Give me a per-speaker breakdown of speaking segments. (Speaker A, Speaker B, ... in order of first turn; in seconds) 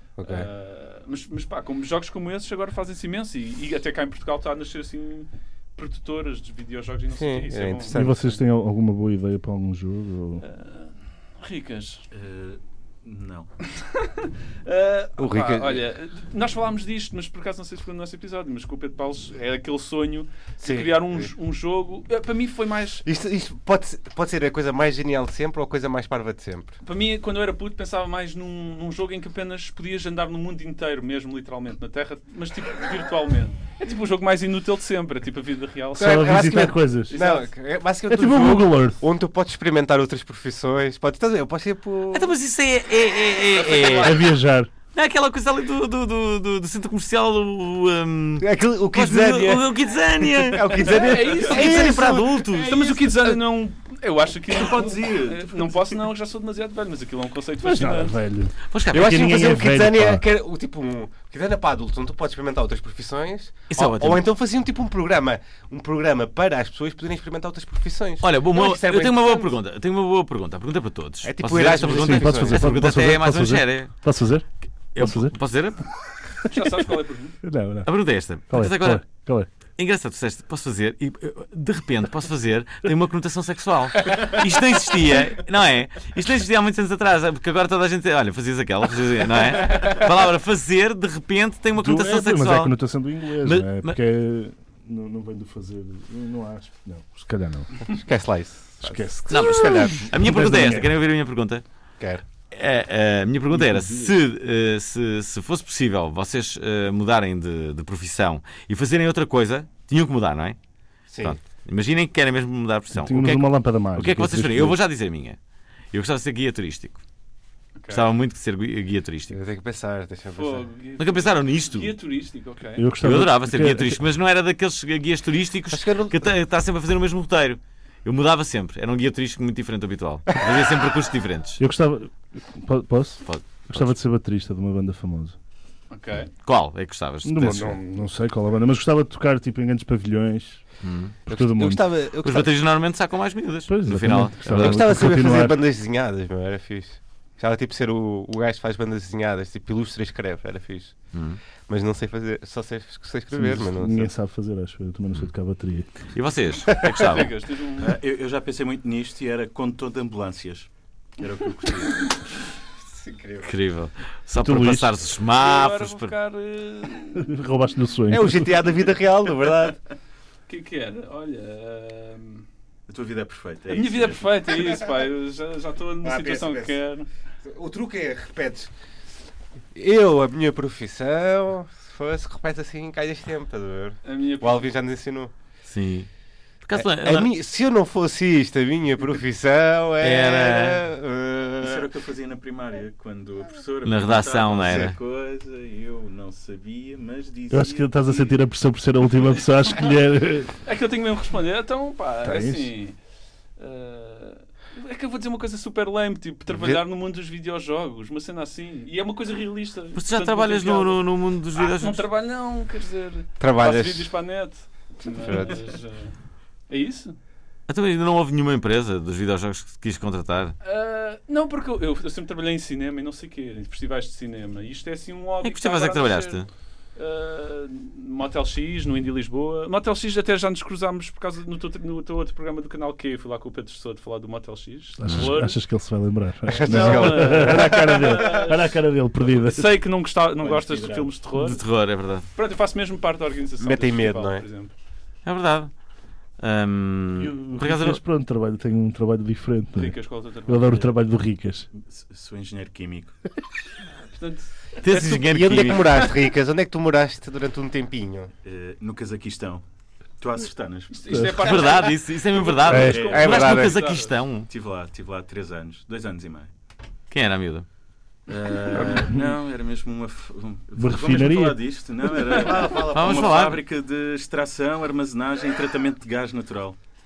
Speaker A: 0.2-0.5, 7.1-8.3, 15.2-15.8, 20.6-21.3, 23.0-26.7, 36.0-42.3, 48.4-52.5, 58.9-69.5, 71.2-72.8, 97.9-100.1, 111.1-111.4, 119.3-120.7, 125.7-126.3, 141.3-142.5, 144.6-150.9, 151.7-154.1, 162.9-163.5, 168.1-169.8, 176.0-176.8, 177.4-178.7, 179.7-185.3, 186.8-191.9, 206.5-206.8, 213.4-214.1, 215.2-215.6, 236.5-238.3, 243.6-244.4, 254.9-258.3, 263.1-263.7
Speaker B: 0.2-8.3, 10.4-12.0, 13.7-23.0, 26.8-36.6, 37.1-37.5, 43.6-44.1, 50.8-58.2, 76.5-77.4, 117.8-118.1, 120.3-122.8, 135.9-136.3, 157.0-157.9, 165.4-167.3, 170.5-172.4, 173.7-177.1, 184.0-184.7, 200.6-202.9, 203.6-211.0, 211.5-216.1, 216.7-217.2, 220.6-226.4, 226.9-235.6, 236.6-238.6, 239.2-241.6, 242.3-244.7, 249.8-250.8, 254.1-255.2, 260.9-264.1, 268.7-269.1
Speaker C: 7.9-10.4, 36.0-37.2, 38.1-39.0, 44.0-44.7, 57.6-60.2, 71.8-75.3, 77.4-77.9, 78.5-79.5, 91.7-97.8, 98.8-100.9, 103.5-104.1, 112.9-114.8, 122.8-124.0, 131.6-135.3, 137.2-140.6, 141.3-141.8, 143.7-145.6, 153.3-155.9, 164.4-164.9, 167.2-168.5, 197.5-200.5, 202.2-202.7, 235.0-239.8, 247.2-251.7, 262.7-263.1, 270.8-271.6
Speaker D: 12.1-13.5, 54.5-56.0, 157.8-162.1, 172.9-174.4, 191.6-198.2, 240.4-241.1, 251.7-253.1, 258.4-259.6, 260.2-261.4, 262.8-263.2, 264.5-266.5, 268.3-276.8
Speaker E: 42.1-44.2, 44.9-53.3, 58.7-59.2, 63.7-64.2, 68.2-73.9, 74.9-75.8, 77.8-79.1, 79.8-92.8, 93.4-94.0, 99.3-101.6, 102.5-110.6, 111.2-115.4, 115.9-117.0, 117.9-119.4, 121.0-121.9, 123.0-131.6, 133.2-133.9, 136.4-137.8, 140.8-141.2, 142.2-145.0, 151.1-151.4, 156.1-157.3, 163.4-166.1, 185.7-186.1, 186.6-187.3, 190.0-190.8, 193.8-194.9, 209.9-212.0, 217.7-220.5, 225.4-226.5, 241.3-242.2, 245.2-245.7, 246.4-248.0, 254.8-256.1, 261.4-264.5, 267.1-267.6, 272.7-273.6